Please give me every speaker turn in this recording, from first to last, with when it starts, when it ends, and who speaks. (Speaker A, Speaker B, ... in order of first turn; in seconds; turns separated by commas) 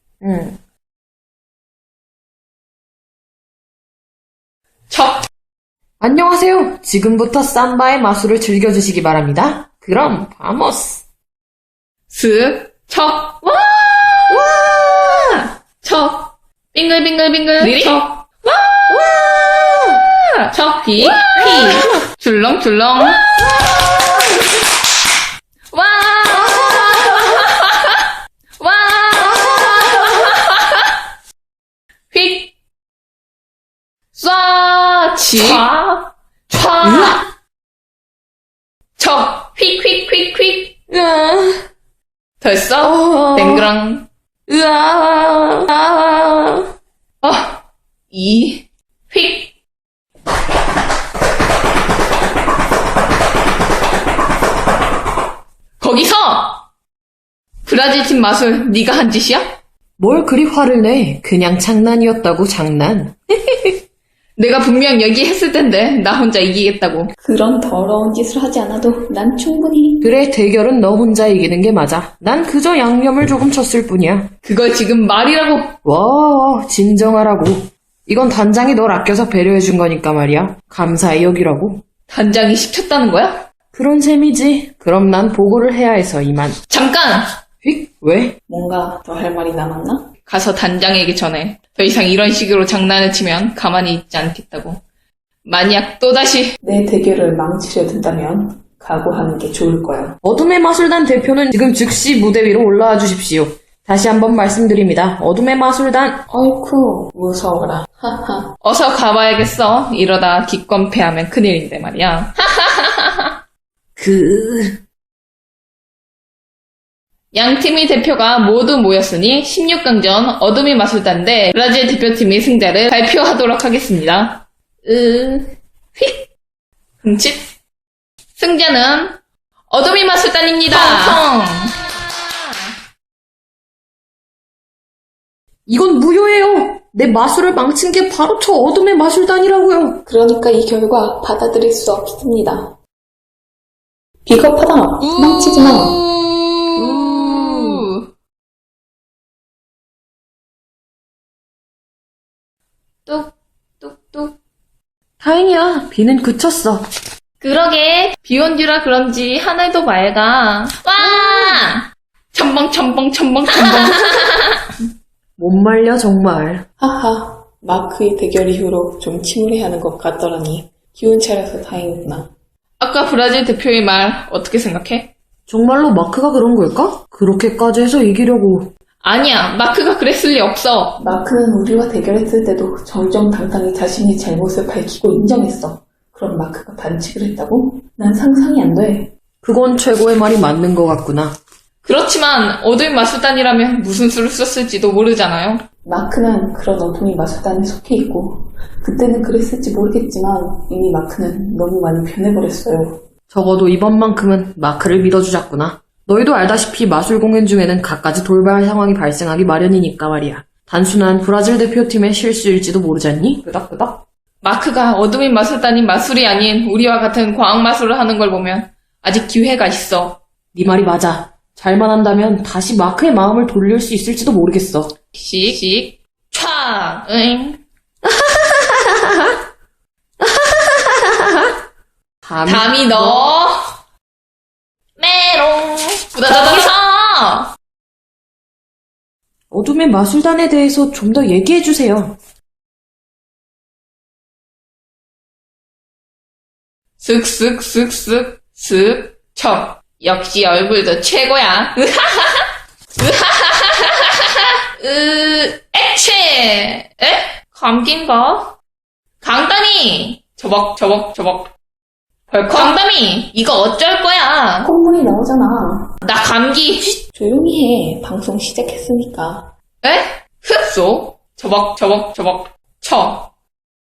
Speaker A: 0.2-0.6, Speaker B: 4.9-5.3, Speaker A: 6.0-11.1, Speaker B: 12.1-14.5, Speaker A: 14.3-15.4, Speaker B: 15.3-19.0, Speaker A: 18.9-20.0, Speaker B: 19.9-23.4, Speaker A: 21.4-21.9, Speaker A: 23.4-24.4, Speaker B: 25.7-28.1, Speaker A: 26.5-27.2, Speaker B: 28.6-30.9, Speaker B: 32.1-32.5, Speaker B: 34.1-37.3, Speaker A: 36.8-37.2, Speaker B: 39.0-40.8, Speaker A: 40.9-41.7, Speaker B: 42.4-44.1, Speaker A: 42.8-43.7, Speaker A: 44.5-46.7, Speaker B: 47.2-49.5, Speaker B: 55.8-56.6, Speaker B: 57.6-59.5, Speaker A: 60.0-63.2, Speaker B: 64.4-67.1, Speaker C: 67.2-70.1, Speaker A: 70.0-74.3, Speaker B: 74.4-75.7, Speaker A: 75.8-81.8, Speaker B: 82.1-83.5, Speaker A: 83.7-86.6, Speaker B: 86.7-87.3, Speaker A: 87.6-88.4, Speaker C: 88.5-90.1, Speaker B: 90.2-94.8, Speaker B: 95.5-96.6, Speaker C: 96.6-100.2, Speaker A: 100.2-106.3, Speaker C: 106.3-108.5, Speaker B: 108.6-113.3, Speaker A: 114.0-114.8, Speaker B: 117.3-126.3, Speaker B: 127.0-127.5, Speaker B: 128.4-129.2, Speaker B: 129.7-131.9, Speaker A: 130.7-131.2, Speaker A: 135.7-140.0, Speaker C: 140.1-142.8, Speaker C: 144.2-146.0, Speaker B: 145.0-148.0, Speaker A: 146.8-147.9, Speaker B: 153.1-154.4, Speaker A: 155.2-156.9, Speaker B: 157.4-164.7, Speaker A: 161.0-161.6, Speaker A: 165.4-166.7, Speaker C: 166.8-172.3, Speaker B: 172.8-175.1, Speaker A: 175.5-178.7, Speaker B: 179.0-181.0, Speaker C: 181.0-189.1, Speaker A: 189.4-191.4, Speaker B: 191.8-195.6, Speaker C: 195.8-203.1, Speaker A: 203.3-214.1, Speaker B: 214.4-220.2, Speaker A: 220.5-224.9, Speaker B: 225.1-227.6, Speaker A: 228.1-229.3, Speaker A: 230.2-231.5, Speaker A: 232.2-233.3, Speaker B: 232.5-233.7, Speaker B: 235.0-237.5, Speaker A: 239.5-242.2, Speaker B: 247.0-258.6, Speaker B: 259.2-261.5, Speaker B: 262.3-264.7, Speaker C: 264.6-266.0, Speaker B: 266.0-267.0, Speaker C: 267.1-269.5, Speaker B: 269.8-273.3